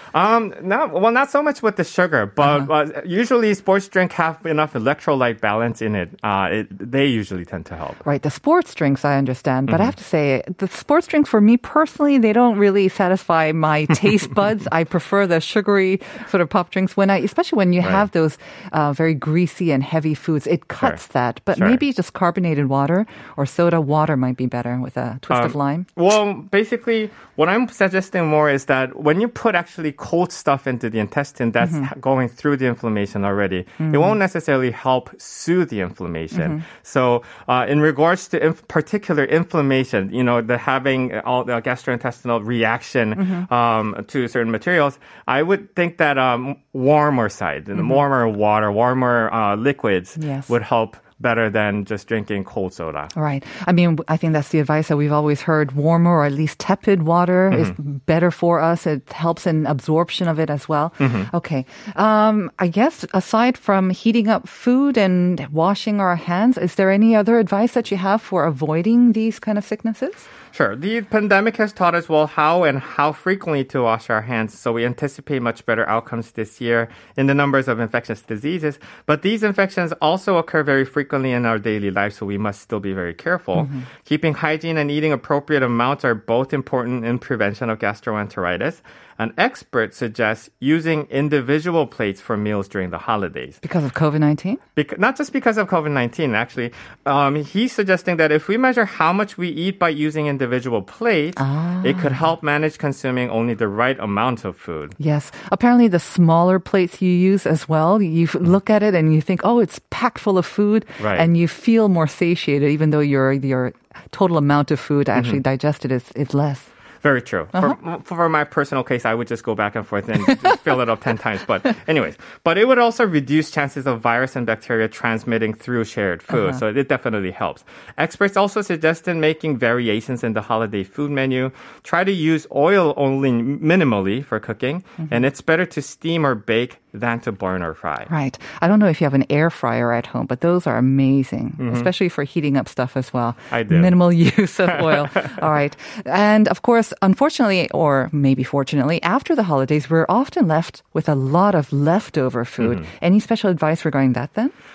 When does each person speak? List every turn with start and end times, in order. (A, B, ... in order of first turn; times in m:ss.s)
0:00.1-0:08.0 A
0:08.0-0:25.9 B
0:21.6-0:21.8 A
0:25.3-0:53.1 A
0:33.8-0:34.1 B
0:36.4-0:36.6 B
0:43.2-0:43.5 B
0:50.2-0:50.5 B
0:53.2-1:10.3 B
1:01.0-1:01.3 A
1:10.5-1:33.6 A
1:23.6-1:23.8 B
1:33.6-1:34.6 B
1:34.8-1:45.0 A
1:41.4-1:42.1 B
1:45.0-1:56.7 B
1:51.0-1:51.3 A
1:55.2-1:55.4 A
1:57.0-2:18.1 A
2:18.1-2:34.5 B
2:21.6-2:21.9 A
2:23.5-2:24.0 A
2:24.7-2:25.4 A
2:32.6-2:32.9 A